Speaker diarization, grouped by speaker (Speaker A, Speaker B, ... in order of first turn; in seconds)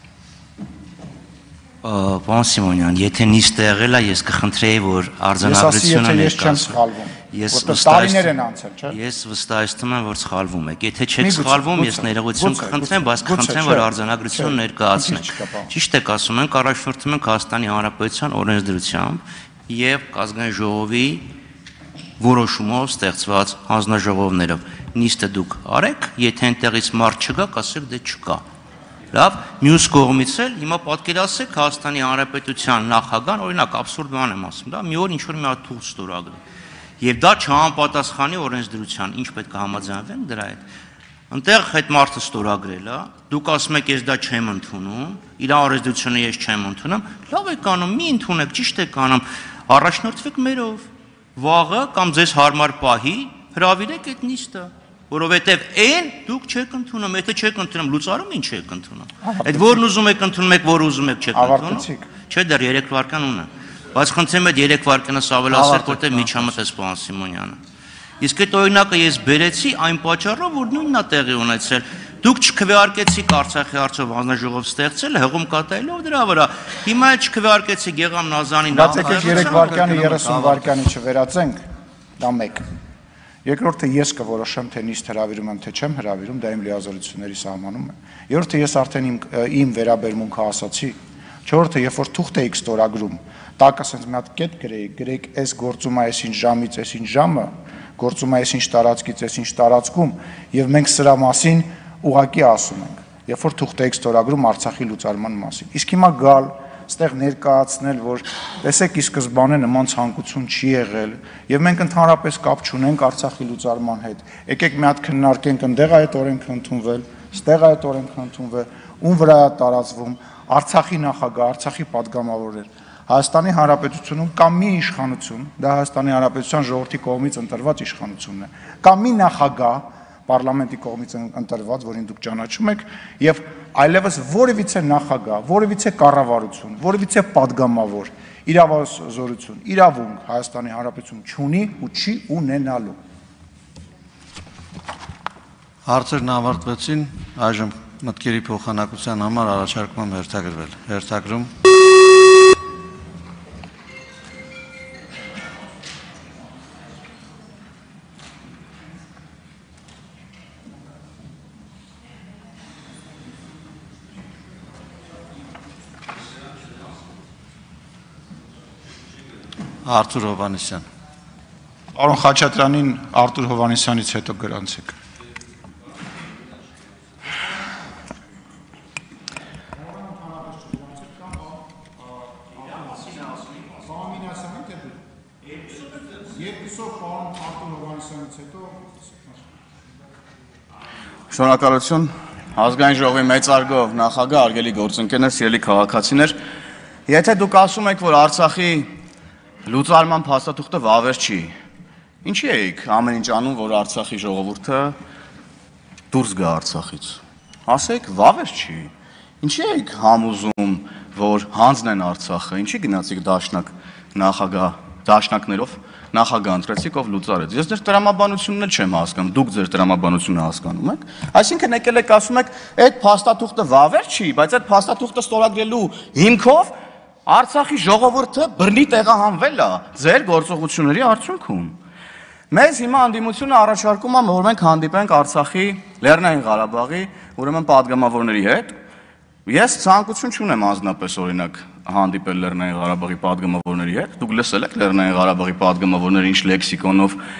Speaker A: 1.8-6.8, 7.3-8.3, 8.9-21.2, 22.2-28.4, 29.1-36.4, 37.0-40.6, 41.3-67.6, 68.2-79.7
Speaker B: 5.4-9.0, 11.2-15.7, 59.2-59.8, 61.3-62.1, 65.5-66.5, 78.7-81.6, 82.2-82.6, 83.4-142.9, 171.9-174.9, 179.8-185.0, 186.2-189.4
Speaker C: 78.8-80.8, 145.8-151.5, 169.8-170.8
Speaker D: 191.3-196.3, 197.1-198.9, 199.7-201.5, 202.2-204.9, 206.1-226.7, 227.2-231.8, 232.5-238.7, 239.4-247.2